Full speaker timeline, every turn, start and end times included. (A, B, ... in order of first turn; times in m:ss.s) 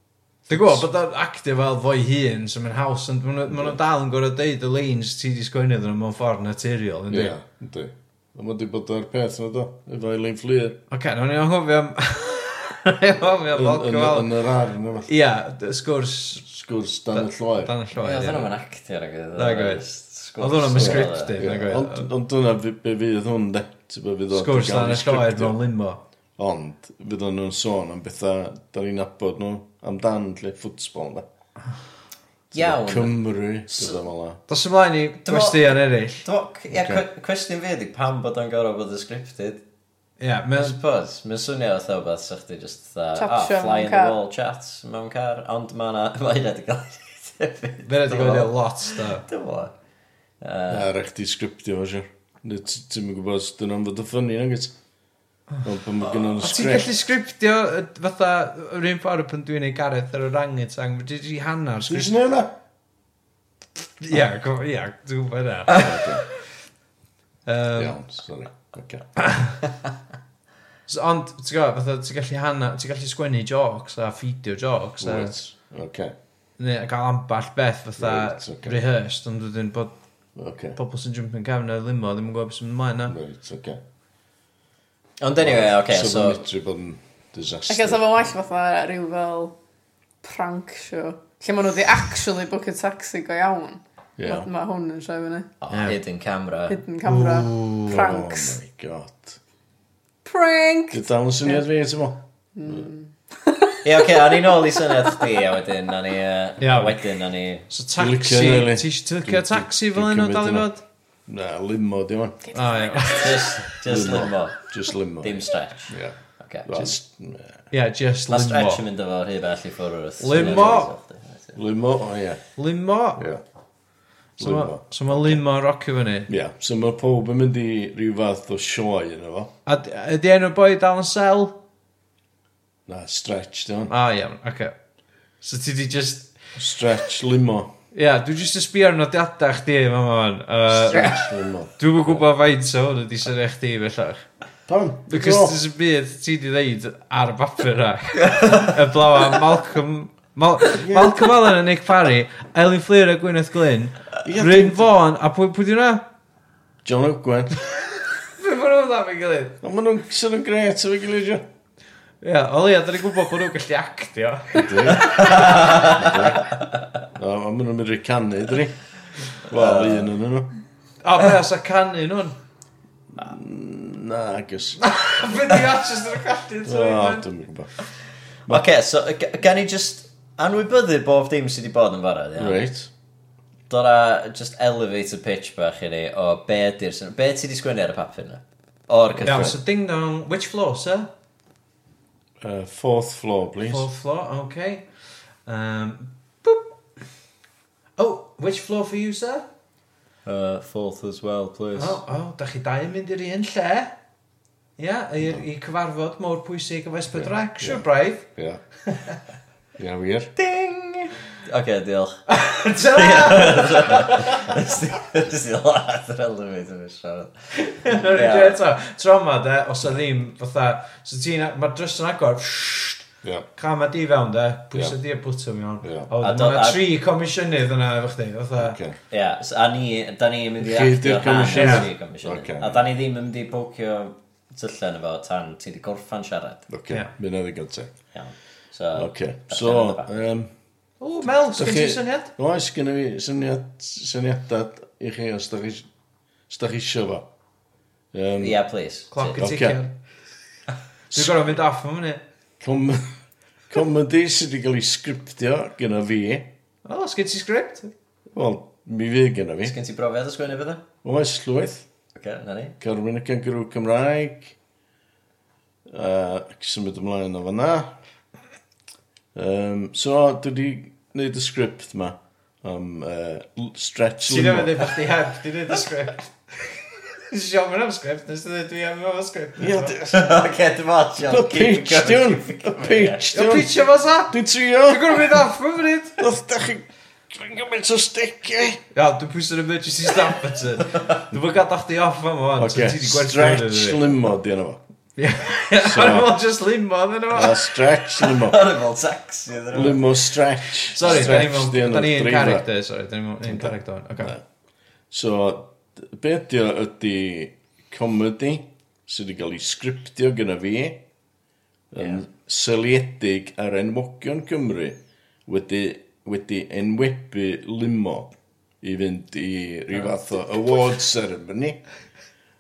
0:00.5-0:00.9 A
0:00.5-0:07.4 B
0:03.5-0:03.8 A
0:07.1-0:10.8 A
0:10.9-0:14.3 B
0:13.5-0:15.1 A
0:15.0-0:16.5 B
0:16.5-0:17.7 A
0:17.1-0:18.5 B
0:18.0-0:21.4 C
0:19.4-0:19.8 B
0:20.4-0:22.1 B
0:20.8-0:25.6 A
0:24.3-0:26.0 B
0:26.4-0:31.3 A
0:32.5-0:34.4 A
0:32.5-0:33.2 C
0:33.7-0:34.0 C
0:34.5-0:36.2 B
0:35.2-0:39.6 C
0:36.7-0:37.0 A
0:40.2-0:40.8 B
0:40.6-0:49.7 C
0:43.2-0:44.2 D
0:47.8-0:49.2 B
0:50.4-0:50.9 C
0:50.7-0:54.7 A
0:55.6-0:56.9 A
0:56.4-1:02.1 B
1:01.9-1:02.5 A
1:04.0-1:06.2 B
1:05.7-1:06.2 A
1:07.5-1:08.0 B
1:07.8-1:09.1 A
1:10.9-1:15.3 B
1:15.0-1:16.1 A
1:16.6-1:20.0 B
1:18.0-1:18.8 A
1:20.4-1:20.8 A
1:20.8-1:23.2 B
1:23.1-1:23.8 A
1:25.2-1:26.4 C
1:25.4-1:28.3 A
1:27.7-1:29.6 D
1:30.2-1:35.5 D
1:34.2-1:34.5 A
1:35.6-1:36.8 C
1:35.7-1:36.0 B
1:36.7-1:38.6 D
1:37.0-1:38.1 B
1:37.9-1:39.4 A
1:40.2-1:41.6 D
1:40.9-1:42.9 A
1:42.6-1:45.2 D
1:43.8-1:47.7 C
1:46.6-1:47.0 B
1:47.7-1:50.8 B
1:48.0-1:50.7 A
1:51.3-1:52.5 A
1:52.5-1:53.8 B
1:53.0-1:54.6 C
1:53.8-1:57.7 A
1:55.2-1:56.9 C
1:57.7-1:58.8 B
1:58.3-2:01.6 C
2:00.2-2:00.9 B
2:00.3-2:00.9 A
2:01.6-2:02.4 A
2:02.6-2:03.2 B
2:03.2-2:03.4 A
2:04.4-2:05.4 A
2:04.4-2:06.3 B
2:06.3-2:09.5 A
2:09.7-2:11.6 B
2:12.9-2:13.9 A
2:13.9-2:14.8 B
2:15.4-2:16.4 B
2:16.6-2:17.7 A
2:17.9-2:21.2 B
2:20.7-2:22.2 A
2:21.8-2:24.3 B
2:24.7-2:25.6 A
2:25.1-2:36.0 B
2:28.2-2:28.7 C
2:30.8-2:31.2 A
2:34.2-2:34.8 A
2:36.8-2:37.6 A
2:38.3-2:39.6 B
2:39.6-2:41.4 A
2:42.2-2:45.4 B
2:44.5-2:46.5 A
2:45.0-2:46.6 C
2:47.2-2:48.8 A
2:49.4-2:50.6 A
2:49.5-2:50.1 C
2:51.0-2:52.4 B
2:53.2-2:54.8 A
2:54.8-2:57.2 B
2:56.6-2:57.7 A
2:58.5-3:02.6 C
3:02.4-3:02.9 A
3:03.7-3:09.6 C
3:09.1-3:09.6 A
3:09.2-3:11.1 B
3:12.4-3:13.9 A
3:13.7-3:14.9 B
3:15.4-3:16.7 B
3:18.0-3:19.5 B
3:20.2-3:22.0 C
3:21.8-3:24.0 B
3:24.8-3:28.3 B
3:27.1-3:28.6 A
3:28.9-3:29.2 B
3:29.8-3:30.3 A
3:30.4-3:32.2 C
3:32.3-3:34.6 B
3:32.8-3:37.3 C
3:37.6-3:43.1 B
3:38.1-3:38.6 C
3:43.6-3:48.8 B
3:45.8-3:46.1 A
3:46.2-3:46.9 C
3:48.6-3:49.0 A
3:49.1-3:56.6 C
3:50.6-3:52.9 A
3:51.5-3:51.9 B
3:56.7-3:58.0 A
3:58.1-4:00.1 C
3:58.9-4:00.5 A
4:01.0-4:02.3 B
4:01.3-4:05.9 A
4:06.5-4:07.3 A
4:08.1-4:08.6 A
4:08.4-4:09.4 C
4:09.1-4:09.9 B
4:09.4-4:09.8 A
4:11.1-4:12.2 B
4:12.6-4:13.1 A
4:13.7-4:16.5 A
4:16.8-4:17.9 B
4:18.3-4:19.8 A
4:19.6-4:20.8 C
4:21.0-4:21.9 A
4:22.2-4:22.8 C
4:22.8-4:24.6 A
4:25.9-4:27.9 A
4:29.4-4:34.9 A
4:34.2-4:40.0 B
4:39.6-4:40.4 A
4:40.1-4:43.4 C
4:41.2-4:45.4 A
4:43.3-4:46.2 B
4:46.2-4:48.8 A
4:48.9-4:54.0 B
4:52.6-4:54.8 A
4:55.2-4:57.7 B
4:55.8-4:56.3 A
4:57.3-4:58.6 A
4:58.3-5:00.0 C
4:59.7-5:02.7 A
5:00.9-5:04.4 B
5:01.0-5:01.5 C
5:03.4-5:04.4 A
5:05.1-5:11.0 A
5:11.9-5:21.8 A